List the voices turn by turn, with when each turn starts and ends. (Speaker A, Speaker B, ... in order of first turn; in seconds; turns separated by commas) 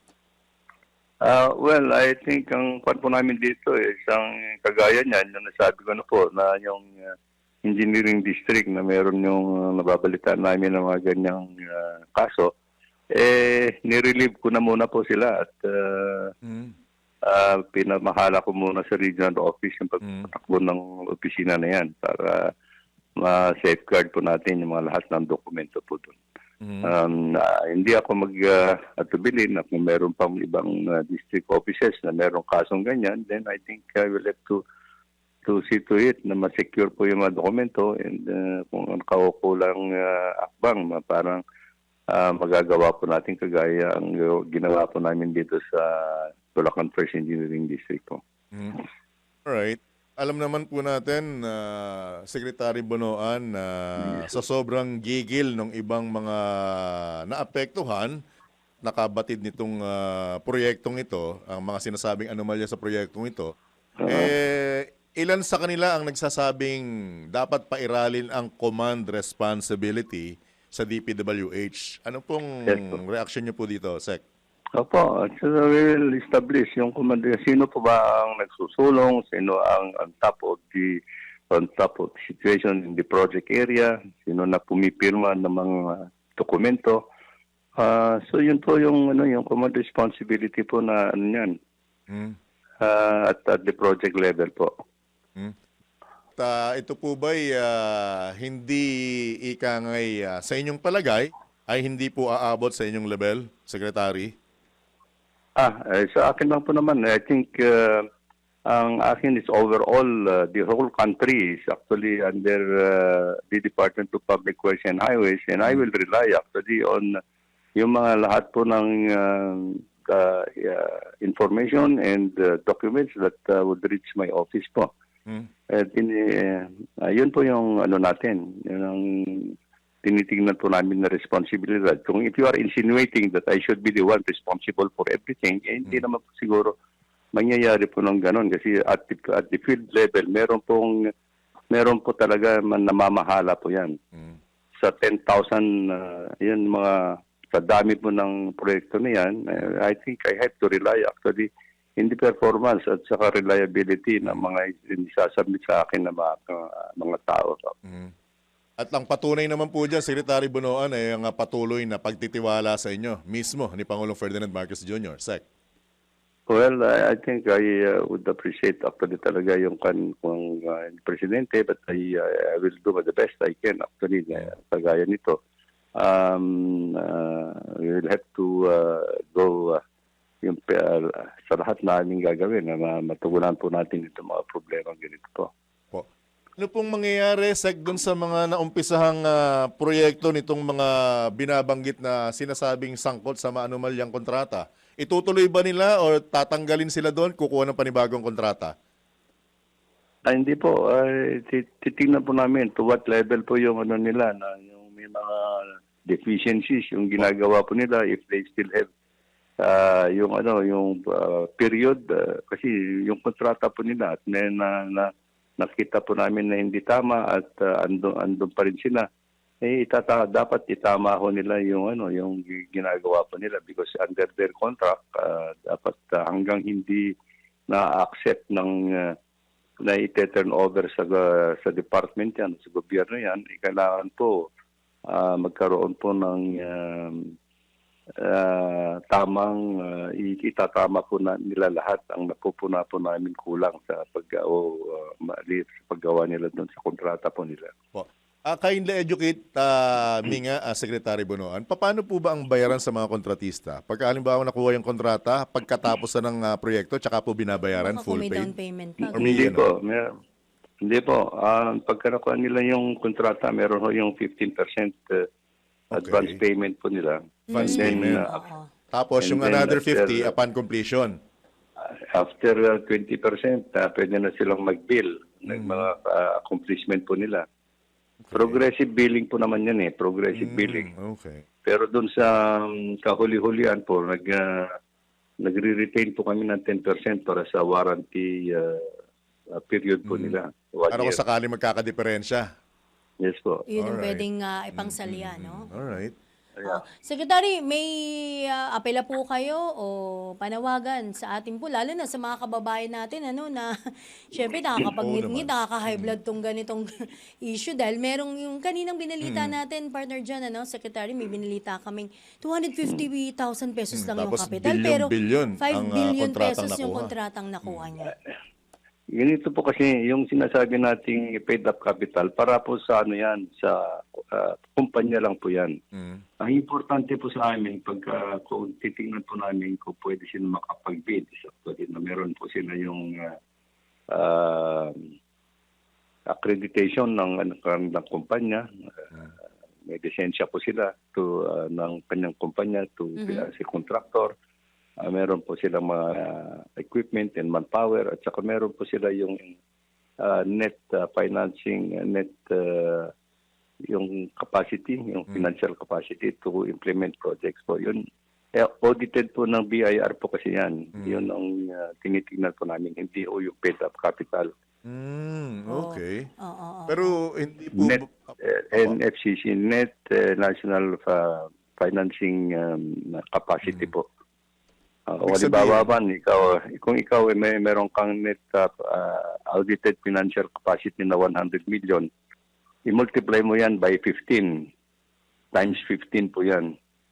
Speaker A: 1.2-7.1, Speaker A: 7.6-12.5, Speaker A: 13.1-16.3, Speaker B: 16.4-16.7, Speaker A: 17.2-22.5, Speaker B: 20.0-20.3, Speaker A: 23.2-26.2, Speaker B: 26.6-26.9, Speaker A: 26.8-34.6, Speaker A: 35.4-41.4, Speaker A: 42.1-48.2, Speaker B: 49.5-58.2, Speaker A: 54.0-54.3, Speaker B: 58.8-63.5, Speaker A: 64.0-64.3, Speaker B: 64.1-74.2, Speaker A: 72.7-73.0, Speaker A: 74.8-87.0, Speaker A: 87.8-91.5, Speaker B: 92.1-92.3, Speaker A: 92.8-94.7, Speaker B: 96.4-98.9, Speaker B: 99.4-104.3, Speaker A: 105.5-108.1, Speaker A: 108.7-117.2, Speaker A: 117.8-124.9, Speaker A: 125.7-136.7, Speaker A: 137.3-141.0, Speaker A: 141.7-144.0, Speaker A: 144.8-157.7, Speaker B: 157.8-158.1, Speaker B: 158.8-165.4, Speaker A: 166.5-175.4, Speaker A: 175.9-179.8, Speaker A: 180.4-185.5, Speaker B: 186.6-198.7, Speaker A: 200.2-208.9, Speaker A: 209.6-219.1, Speaker A: 219.6-227.1, Speaker A: 227.7-229.2, Speaker A: 229.8-234.5, Speaker A: 235.1-237.3, Speaker A: 238.2-247.7, Speaker B: 247.9-258.5, Speaker C: 257.7-259.5, Speaker A: 259.0-260.1, Speaker B: 259.1-259.6, Speaker A: 260.8-265.2, Speaker B: 265.9-266.4, Speaker A: 265.9-268.4, Speaker C: 267.5-268.7, Speaker B: 267.5-268.3, Speaker B: 268.9-271.1, Speaker A: 269.2-270.3, Speaker A: 272.1-277.4, Speaker B: 275.5-275.9, Speaker B: 278.2-278.6, Speaker A: 278.3-280.9, Speaker B: 280.3-281.4, Speaker A: 281.6-284.7, Speaker A: 285.4-288.9, Speaker A: 289.5-291.2, Speaker B: 290.0-290.4, Speaker B: 290.9-292.4, Speaker A: 293.2-293.6, Speaker C: 293.7-295.9, Speaker B: 293.8-296.1, Speaker A: 296.6-296.8, Speaker C: 296.6-297.9, Speaker C: 298.5-303.7, Speaker C: 304.3-318.1, Speaker B: 305.0-306.1, Speaker B: 309.2-309.5, Speaker B: 313.9-317.1, Speaker A: 318.1-318.3, Speaker A: 319.1-325.8, Speaker B: 325.9-326.2, Speaker A: 326.4-333.4, Speaker A: 334.1-335.0, Speaker A: 336.3-338.6, Speaker A: 339.8-344.3, Speaker C: 343.2-343.4, Speaker A: 345.0-349.6, Speaker A: 350.2-353.1, Speaker A: 353.9-358.0, Speaker A: 358.6-364.5, Speaker B: 360.9-361.2, Speaker B: 364.8-366.3, Speaker C: 365.7-367.1, Speaker B: 366.9-369.0, Speaker A: 367.8-374.0, Speaker B: 373.6-373.9, Speaker A: 375.1-382.1, Speaker B: 375.3-375.9, Speaker A: 382.8-384.7, Speaker A: 385.5-386.7